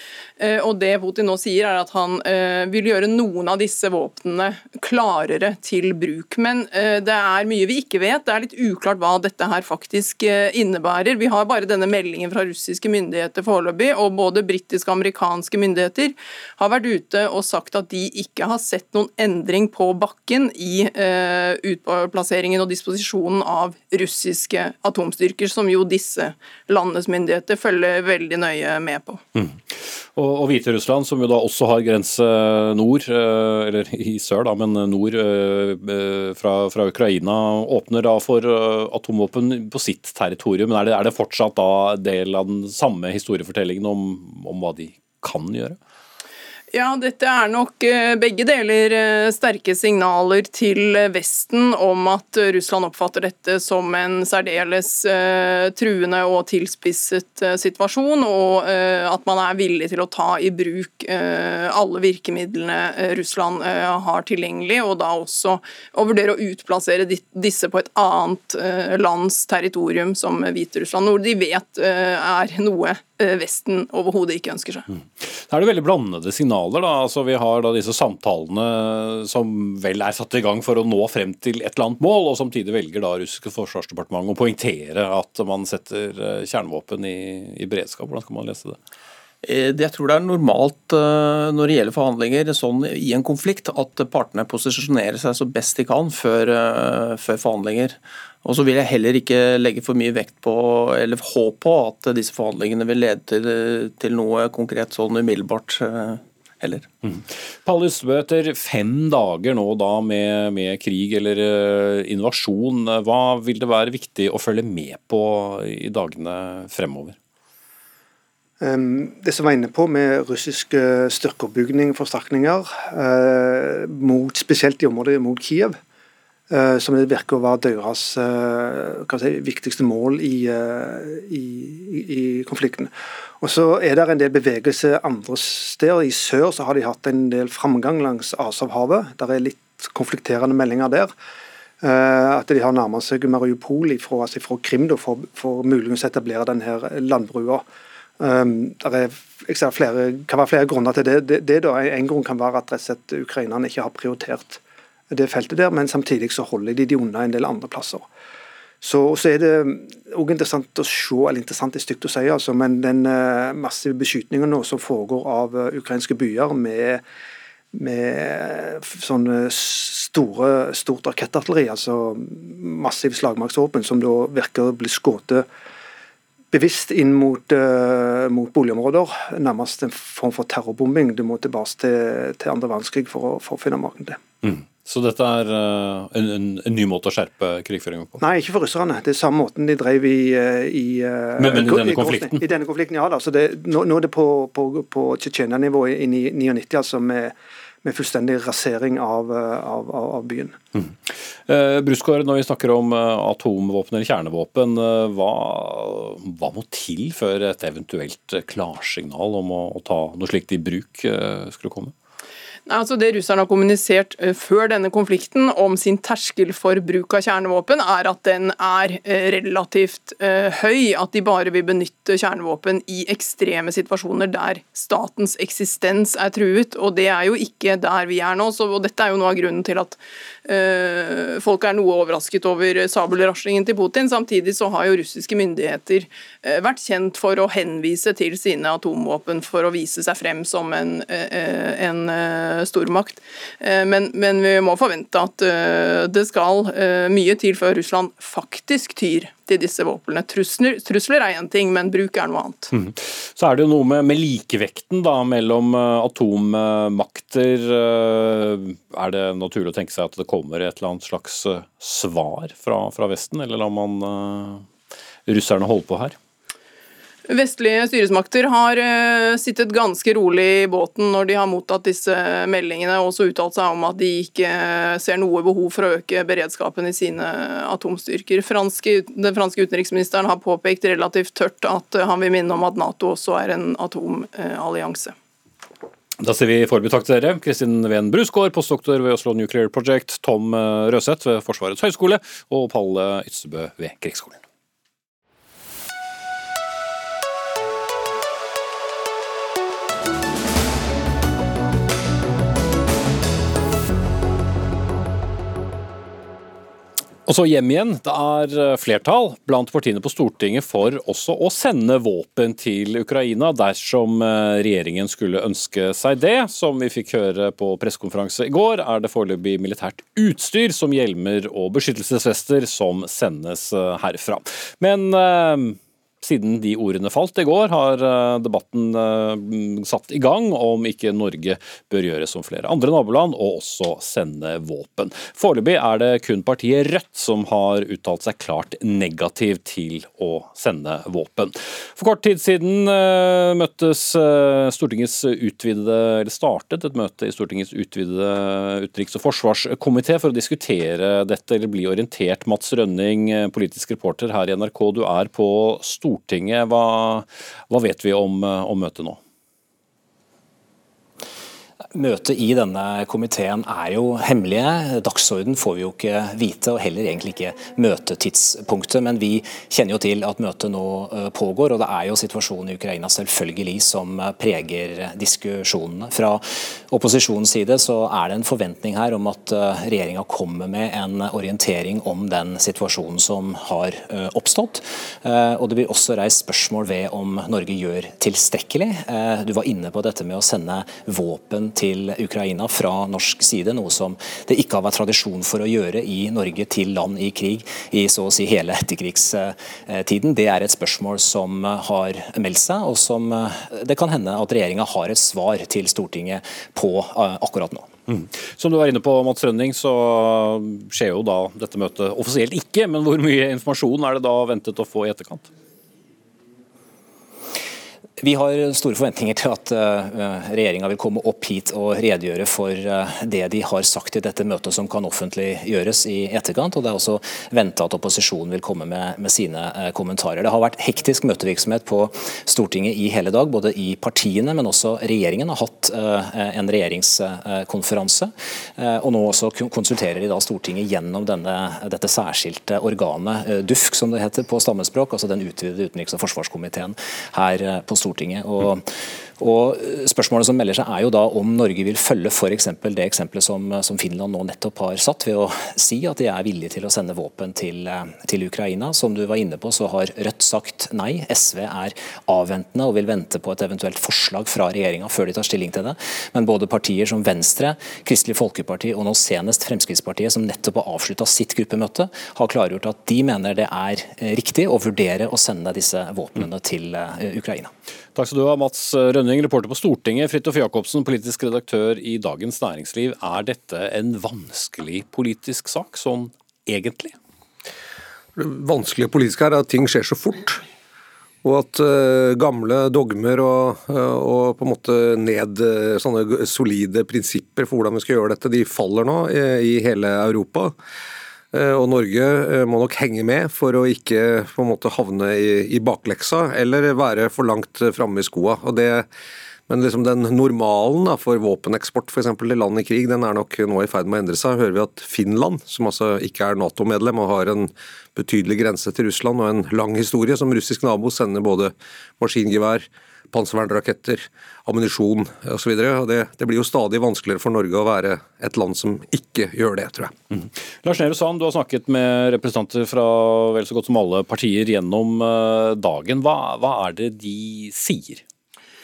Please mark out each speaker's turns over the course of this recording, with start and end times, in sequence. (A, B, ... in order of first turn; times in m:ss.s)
0:00.4-0:29.2 A
0:30.1-0:45.8 B
0:46.7-1:14.8 A
1:15.2-1:28.8 B
1:29.4-1:46.9 C
1:47.0-1:57.2 B
1:58.6-2:05.8 D
2:06.5-2:21.1 D
2:21.8-2:27.6 D
2:28.2-2:34.6 D
2:35.1-2:38.1 D
2:38.8-2:47.0 D
2:47.7-2:55.4 D
2:56.5-3:04.2 D
3:04.4-3:08.2 B
3:08.2-3:20.6 D
3:11.4-3:12.4 B
3:21.5-3:31.9 B
3:32.7-4:12.7 A
4:12.7-4:24.6 B
4:25.3-4:26.2 B
4:27.3-4:45.1 A
4:46.2-4:54.4 B
5:07.2-5:59.2 B
6:01.9-6:47.9 E
6:48.1-6:55.5 B
6:58.2-7:28.9 E
7:29.4-7:57.7 E
7:58.2-8:07.1 B
8:08.4-8:10.6 F
8:11.4-8:20.7 F
8:21.5-8:29.1 F
8:29.7-8:50.1 F
8:50.3-8:58.2 B